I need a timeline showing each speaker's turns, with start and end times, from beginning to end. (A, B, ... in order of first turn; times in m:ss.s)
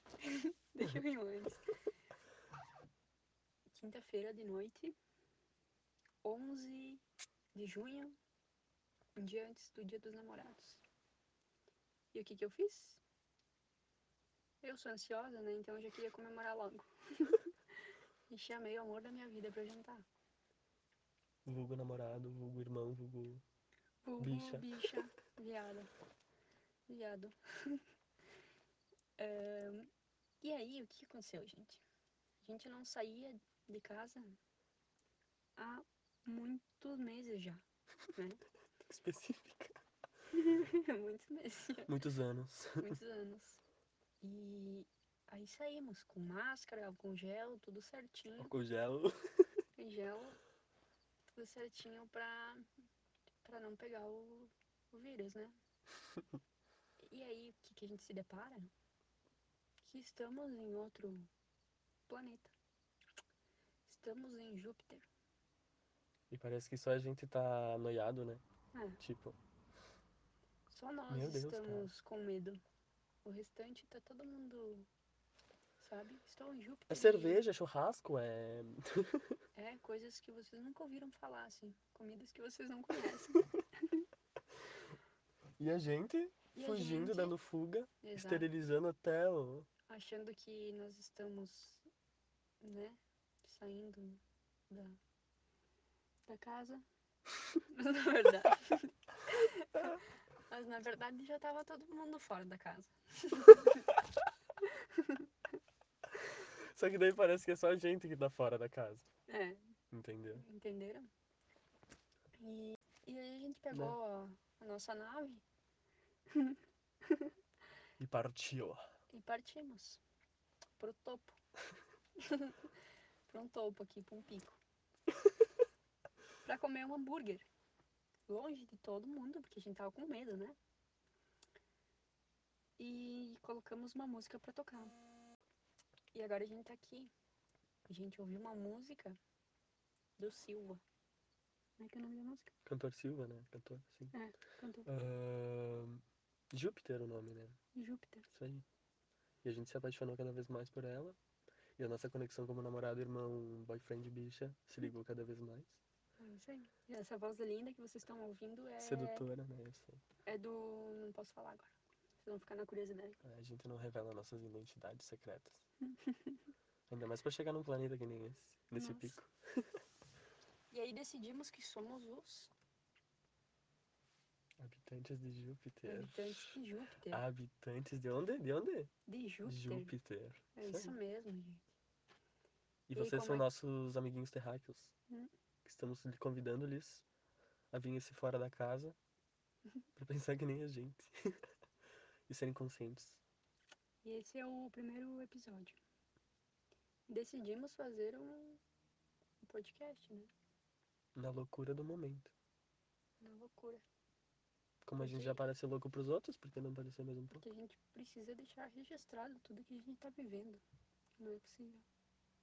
0:00.2-0:01.6 A
0:03.7-0:05.0 A
0:06.2-0:07.0 A
0:07.5-0:08.2 A
0:09.2-0:10.8 A
0:12.1-0:13.0 A
0:14.6-0:17.4 A
0:18.3-0:20.1 A
0:21.5-0:23.4 B
0:24.0-0:25.9 A
0:24.2-0:24.8 B
0:26.9-0:27.8 A
0:29.2-0:29.9 A
0:30.4-0:31.8 A
0:32.4-0:34.4 A
0:35.6-0:38.4 A
0:38.9-0:39.8 B
0:40.3-0:41.9 A
0:41.9-0:43.0 B
0:42.8-0:43.6 A
0:44.2-0:48.5 A
0:48.4-0:49.1 B
0:49.8-0:50.4 A
0:51.3-0:52.6 A
0:53.4-0:55.6 A
0:57.0-0:58.7 A
0:59.8-1:01.3 A
1:02.1-1:02.5 A
1:03.9-1:05.1 A
1:06.3-1:08.4 B
1:08.7-1:09.0 A
1:09.0-1:09.4 B
1:10.7-1:12.6 A
1:11.1-1:11.9 B
1:13.2-1:14.9 A
1:15.8-1:17.4 A
1:16.9-1:19.3 B
1:19.6-1:24.0 A
1:25.6-1:29.7 B
1:26.5-1:27.4 A
1:28.0-1:28.5 A
1:29.9-1:31.8 A
1:32.6-1:35.0 A
1:36.3-1:36.8 A
1:37.7-1:44.0 A
1:44.6-1:45.3 A
1:46.4-1:49.1 B
1:49.3-1:49.6 A
1:49.9-1:50.5 B
1:50.3-1:51.1 A
1:52.4-1:55.4 A
1:56.3-1:57.3 A
1:58.0-1:58.9 B
1:59.1-2:00.0 A
2:00.8-2:01.4 A
2:02.2-2:02.7 A
2:03.3-2:04.6 A
2:06.4-2:07.5 A
2:08.3-2:10.6 A
2:12.8-2:15.0 A
2:16.1-2:17.1 A
2:17.9-2:19.2 A
2:20.2-2:20.8 A
2:21.8-2:22.5 A
2:22.7-2:24.2 B
2:24.1-2:24.9 A
2:24.9-2:27.6 B
2:27.8-2:28.3 A
2:28.3-2:28.6 B
2:29.4-2:31.2 B
2:31.8-2:35.8 B
2:36.2-2:39.3 A
2:38.8-2:40.0 B
2:40.3-2:43.2 A
2:43.2-2:45.6 B
2:45.8-2:46.4 A
2:46.9-2:49.6 B
2:48.8-2:49.2 A
2:50.7-2:52.5 A
2:54.6-2:56.6 B
2:55.9-2:57.3 A
2:57.1-2:58.9 B
2:59.1-2:59.9 A
2:59.4-3:01.0 B
3:00.6-3:01.7 A
3:02.9-3:04.9 B
3:02.9-3:03.5 A
3:05.6-3:07.1 B
3:07.7-3:09.0 B
3:10.0-3:11.1 B
3:12.3-3:13.2 B
3:14.0-3:15.8 A
3:17.1-3:18.6 A
3:19.4-3:20.3 A
3:21.2-3:22.3 B
3:23.2-3:23.8 A
3:24.8-3:27.4 B
3:25.0-3:25.4 A
3:27.3-3:30.6 A
3:31.2-3:31.8 A